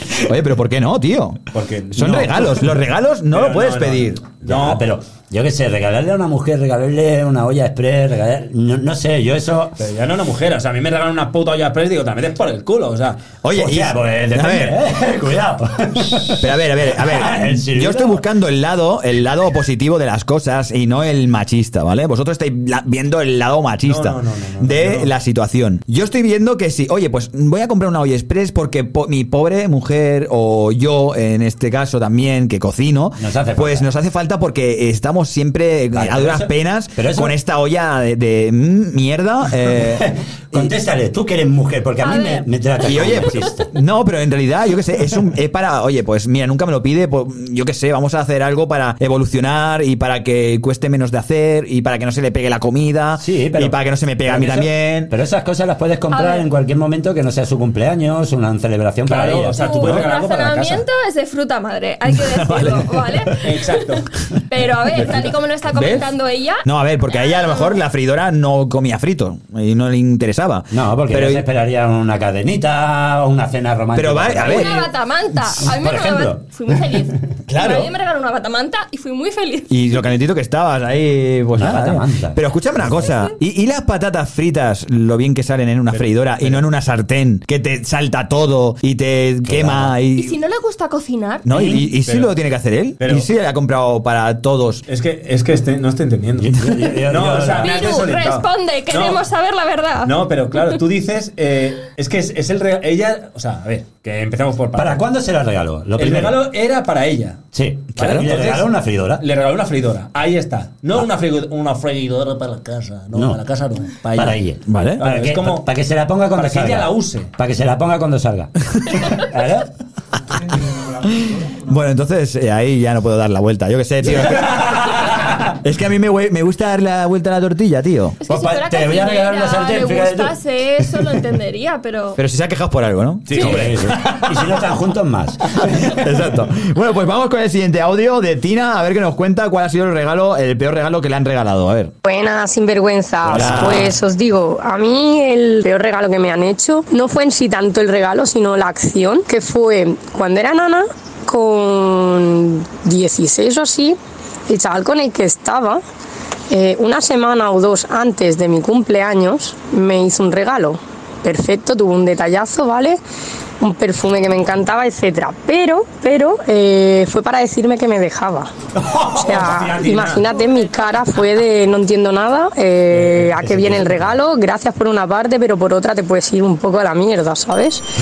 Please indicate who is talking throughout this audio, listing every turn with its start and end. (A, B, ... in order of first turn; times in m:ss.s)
0:00.2-0:01.4 A
0:01.5-0:02.6 B
0:01.9-0:04.2 A
0:03.3-0:04.8 B
0:04.4-0:09.8 C
0:09.8-0:13.3 B
0:13.4-0:14.9 A
0:13.5-0:18.2 C
0:16.2-0:40.7 A
0:23.8-0:25.1 B
0:33.2-0:33.9 C
0:35.9-0:37.3 C
0:39.8-0:43.7 C
0:42.0-0:42.5 D
0:42.8-0:55.1 A
0:53.2-1:00.0 C
0:56.1-0:56.5 D
0:59.0-1:00.8 B
0:59.5-1:03.8 D
1:02.1-1:03.3 A
1:03.4-1:04.1 B
1:04.5-1:07.7 D
1:05.7-1:06.1 A
1:06.6-1:11.4 A
1:10.7-1:14.8 C
1:13.9-1:14.9 A
1:14.4-1:19.8 D
1:15.4-1:17.0 C
1:17.5-1:17.9 A
1:19.7-1:30.4 A
1:21.6-1:23.1 C
1:23.0-1:23.3 D
1:25.9-1:26.6 B
1:29.5-1:29.9 C
1:30.2-1:31.4 D
1:31.4-1:34.8 A
1:31.6-1:31.8 C
1:32.0-1:32.3 B
1:33.0-1:33.3 B
1:34.9-1:39.2 B
1:36.4-1:37.9 C
1:37.6-1:40.7 D
1:40.0-1:45.0 B
1:44.7-1:46.4 C
1:46.0-1:47.4 B
1:47.5-1:49.2 C
1:48.0-1:54.4 B
1:48.0-1:48.3 A
1:54.1-1:59.7 C
1:54.7-1:55.0 A
1:55.0-1:55.7 B
1:56.3-1:57.3 B
2:01.0-2:08.2 A
2:04.1-2:05.4 C
2:08.2-2:12.2 D
2:08.3-2:10.3 C
2:12.2-2:14.0 A
2:13.3-2:14.2 B
2:13.3-2:15.9 C
2:15.9-2:21.9 A
2:22.0-2:35.8 E
2:23.2-2:24.0 A
2:23.3-2:23.9 C
2:36.5-2:43.0 E
2:43.6-2:48.5 E
2:48.8-2:49.5 C
2:49.2-2:50.3 B
2:49.2-2:57.9 E
2:50.4-2:50.9 D
2:52.9-2:54.0 B
2:53.5-2:53.9 C